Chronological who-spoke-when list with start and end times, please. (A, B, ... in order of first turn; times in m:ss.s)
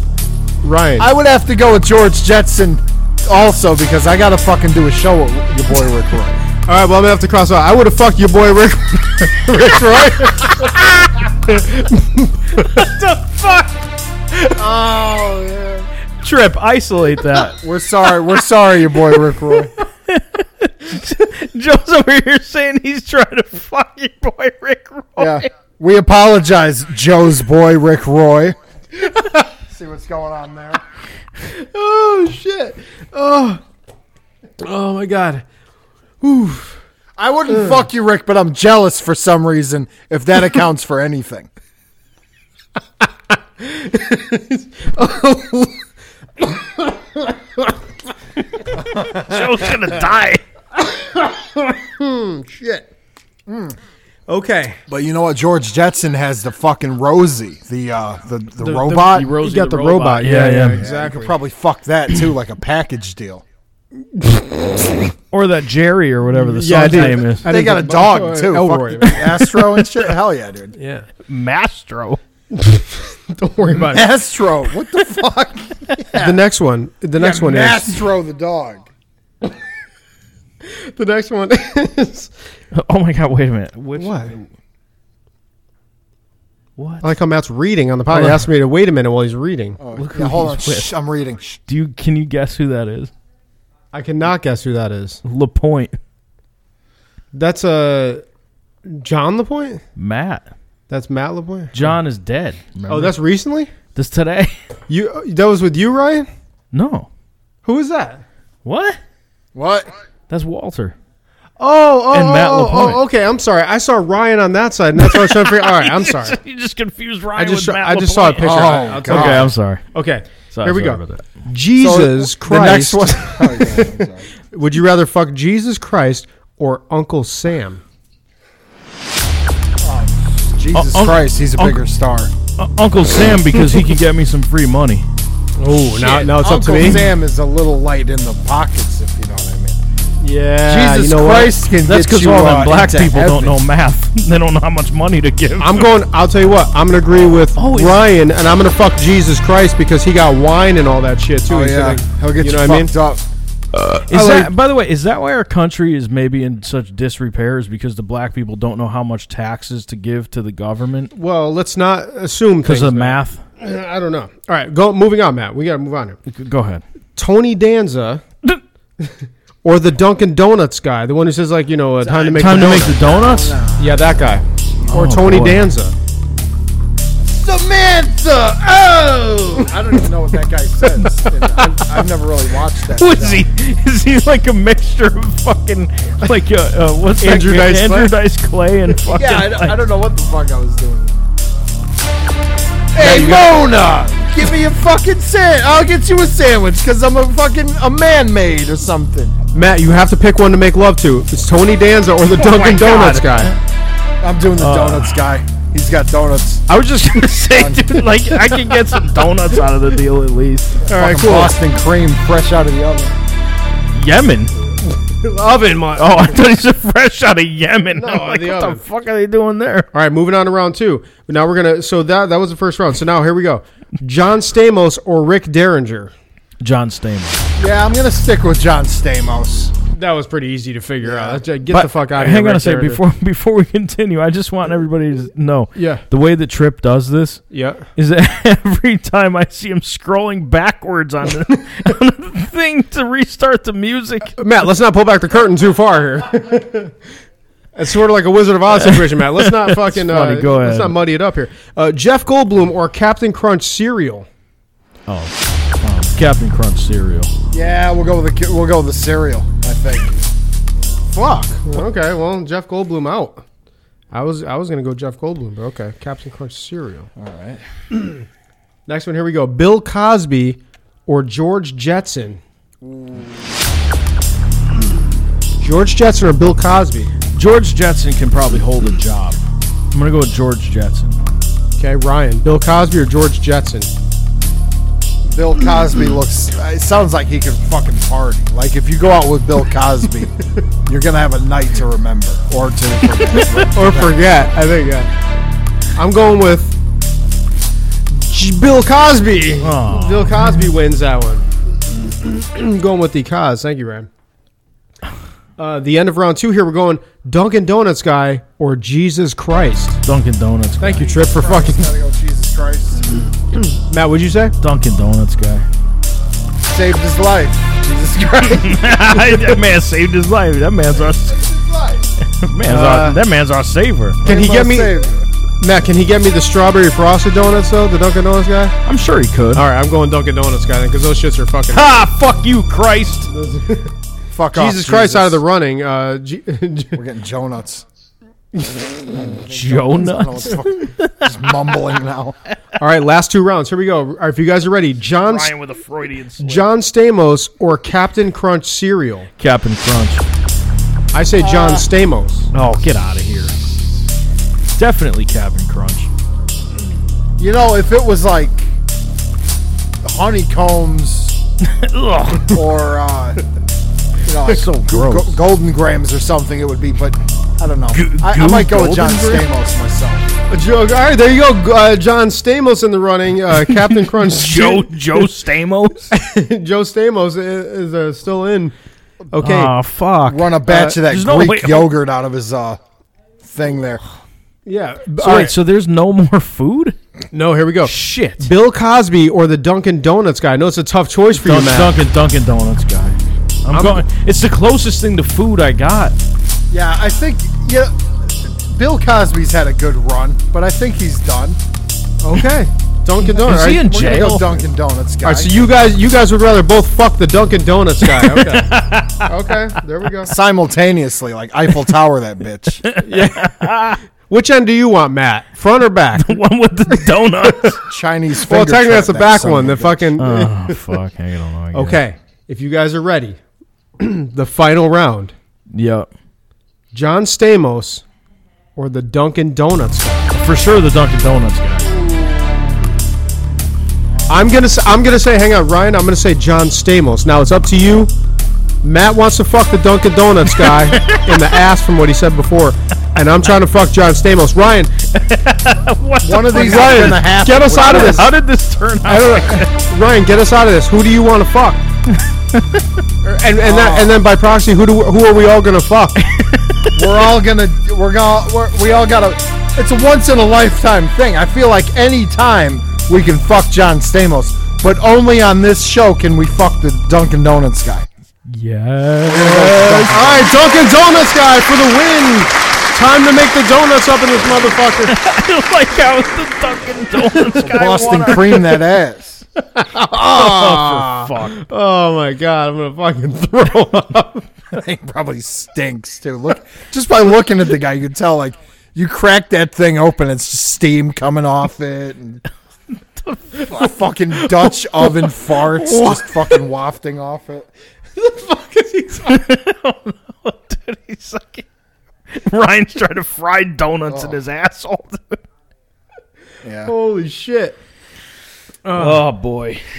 0:00.6-0:01.1 A
0:01.0-0:06.4 B
0:06.7-0:13.0 A
0:12.6-0:13.8 C
0:14.6-0:15.9 B
0:16.2-0:17.6 C
0:17.6-0:19.7 B
0:19.8-0:25.5 C
0:25.2-0:28.6 B
0:29.7-0:30.8 B
0:31.4-0:33.6 A
0:34.6-0:35.4 A
0:36.2-0:36.8 A
0:37.2-0:41.5 B
0:43.6-0:45.8 A
0:46.4-0:47.7 A
0:48.8-0:49.0 B
0:48.9-0:49.8 A
0:49.0-0:50.4 C
0:50.8-0:52.9 A
0:53.5-0:53.8 B
0:54.3-0:54.8 A
0:54.9-0:59.4 B
0:58.6-1:01.4 A
0:58.9-1:00.8 C
1:00.8-1:03.4 B
1:04.2-1:05.0 A
1:05.3-1:07.5 C
1:06.3-1:09.7 A
1:06.9-1:10.8 B
1:10.8-1:11.1 A
1:11.3-1:12.2 C
1:12.5-1:14.1 A
1:13.9-1:16.4 B
1:16.2-1:18.0 A
1:17.2-1:18.9 B
1:20.6-1:22.3 A
1:22.7-1:24.5 C
1:24.0-1:24.3 A
1:26.8-1:27.1 C
1:27.0-1:29.8 A
1:28.1-1:28.5 C
1:29.8-1:31.6 B
1:29.9-1:30.9 C
1:31.7-1:33.1 C
1:33.9-1:35.2 A
1:35.2-1:36.0 C
1:37.3-1:38.2 A
1:38.8-1:39.8 A
1:40.0-1:40.5 C
1:40.9-1:41.9 A
1:41.7-1:43.2 C
1:42.9-1:43.7 A
1:44.0-1:44.5 C
1:44.9-1:46.3 A
1:46.7-1:47.1 C
1:47.6-1:48.2 A
1:48.6-1:49.0 C
1:49.5-1:49.9 B
1:50.3-1:51.0 C
1:51.6-1:56.4 A
1:52.1-1:53.0 C
1:55.0-1:59.9 C
1:57.4-2:03.9 A
1:58.4-1:59.5 B
2:00.5-2:01.5 C
2:01.7-2:04.3 B
2:04.5-2:07.8 A
2:09.8-2:12.3 B
2:10.7-2:11.8 C
2:12.6-2:15.1 C
2:15.6-2:17.0 A
2:15.9-2:19.8 B
2:20.2-2:21.6 A
2:20.6-2:23.6 B
2:21.8-2:25.9 C
2:25.6-2:32.9 A
2:27.6-2:28.0 C
2:31.5-2:33.2 B
2:33.7-2:41.1 C
2:34.1-2:34.5 A
2:41.1-2:46.2 A
2:42.6-2:43.4 C
2:46.3-2:46.8 C
2:47.2-2:48.2 A
2:49.6-2:53.0 A
2:52.0-2:55.2 B
2:52.4-2:53.6 C
2:53.8-2:55.9 A
2:54.9-2:55.7 C
2:57.2-3:03.5 B
3:01.0-3:02.0 A
3:03.0-3:09.8 C
3:07.2-3:08.1 A
3:09.1-3:11.2 B
3:12.9-3:19.4 B
3:13.0-3:13.6 A
3:19.5-3:23.5 A
3:22.3-3:23.6 C
3:24.2-3:26.7 B
3:24.6-3:25.2 C
3:26.7-3:30.8 C
3:27.5-3:28.0 B
3:30.9-3:33.2 B
3:30.9-3:31.6 A
3:33.9-3:34.5 C
3:34.8-3:36.4 A
3:36.0-3:39.9 C
3:38.0-3:38.8 A
3:39.9-3:46.1 A
3:46.6-3:47.4 C
3:47.6-3:49.7 B
3:49.9-3:53.0 A
3:51.0-3:51.4 B
3:51.7-4:04.4 C
3:55.8-3:56.0 A
3:57.5-3:57.9 A
4:04.4-4:06.9 A
4:07.8-4:14.3 A
4:08.8-4:11.0 C
4:15.1-4:17.3 C
4:17.5-4:20.3 B
4:21.1-4:23.4 A
4:24.1-4:27.1 A
4:27.2-4:27.6 B
4:28.9-4:32.4 A
4:32.8-4:33.9 B
4:35.6-4:37.1 A
4:37.3-4:39.4 C
4:39.9-4:41.2 C
4:41.8-4:43.9 A
4:45.2-4:54.5 B
4:53.7-4:55.1 A
4:56.0-4:56.8 A
4:58.1-5:04.1 A
4:59.6-5:00.4 C
5:05.6-5:10.0 A
5:10.1-5:11.2 C
5:10.8-5:11.9 A
5:11.1-5:13.1 B
5:13.5-5:14.6 A
5:14.6-5:15.6 C
5:16.6-5:18.8 B
5:18.4-5:21.5 C
5:21.3-5:22.2 B
5:22.3-5:24.2 C
5:22.7-5:23.2 A
5:24.2-5:24.9 A
5:24.2-5:25.3 B
5:25.6-5:28.8 A
5:28.8-5:29.7 C
5:29.5-5:31.9 A
5:31.7-5:33.3 C
5:33.3-5:33.9 A
5:34.3-5:35.4 B
5:34.5-5:37.0 A
5:36.9-5:37.8 B
5:38.5-5:39.1 A
5:39.1-5:42.4 B
5:39.5-5:41.3 C
5:42.8-5:45.6 A
5:45.2-5:46.7 C
5:46.4-5:49.3 A
5:49.4-5:50.2 C
5:51.1-5:52.5 A
5:51.4-5:51.9 B
5:52.5-5:53.6 C
5:54.8-5:56.1 C
5:57.4-5:58.7 B
6:00.0-6:01.4 B
6:01.6-6:02.6 C
6:02.5-6:03.4 B
6:04.3-6:10.4 B
6:04.4-6:05.4 C
6:07.9-6:09.5 C
6:10.5-6:15.3 A
6:13.7-6:16.1 C
6:16.1-6:18.8 A
6:19.3-6:19.7 A
6:19.4-6:21.9 C
6:20.3-6:22.8 B
6:20.7-6:20.9 A
6:23.4-6:24.0 B
6:24.6-6:25.6 A
6:25.2-6:27.0 C
6:27.3-6:32.0 A
6:27.8-6:28.5 C
6:31.4-6:36.2 C
6:33.7-6:34.0 A
6:36.7-6:41.6 B
6:42.2-6:43.9 A
6:43.2-6:44.6 C
6:43.4-6:45.6 B
6:45.2-6:48.7 A
6:48.1-6:49.3 C
6:49.2-6:50.4 A
6:50.3-6:52.8 B
6:52.8-6:54.0 C
6:53.0-6:56.4 A
6:56.2-6:57.8 C
6:57.1-6:57.8 A
6:57.8-7:00.2 B
6:58.4-7:01.0 A
7:00.2-7:02.0 C
7:01.7-7:03.4 A
7:04.0-7:05.3 A
7:05.7-7:06.1 C
7:06.9-7:08.0 A
7:08.8-7:10.3 A
7:10.3-7:12.0 C
7:11.9-7:12.9 B
7:14.3-7:18.1 A
7:18.8-7:24.9 A
7:20.6-7:21.5 C
7:25.1-7:29.7 C
7:26.2-7:28.3 B
7:26.5-7:28.3 A
7:29.1-7:31.9 A
7:32.6-7:32.8 C
7:33.2-7:36.3 A
7:33.6-7:34.2 B
7:36.2-7:37.0 C
7:37.0-7:48.1 B
7:48.5-7:50.4 C
7:49.2-7:50.5 B
7:49.8-7:55.2 A
7:55.1-7:58.8 C
7:57.6-7:59.4 B
7:59.8-8:04.5 A
8:00.1-8:01.6 C
8:04.7-8:12.4 B
8:13.2-8:14.0 C
8:13.6-8:17.7 B
8:15.6-8:16.3 C
8:18.2-8:19.4 A
8:19.3-8:21.6 C
8:22.3-8:25.4 C
8:24.1-8:24.4 B
8:26.6-8:26.9 B
8:26.9-8:27.8 A
8:28.8-8:29.3 A
8:29.0-8:29.8 C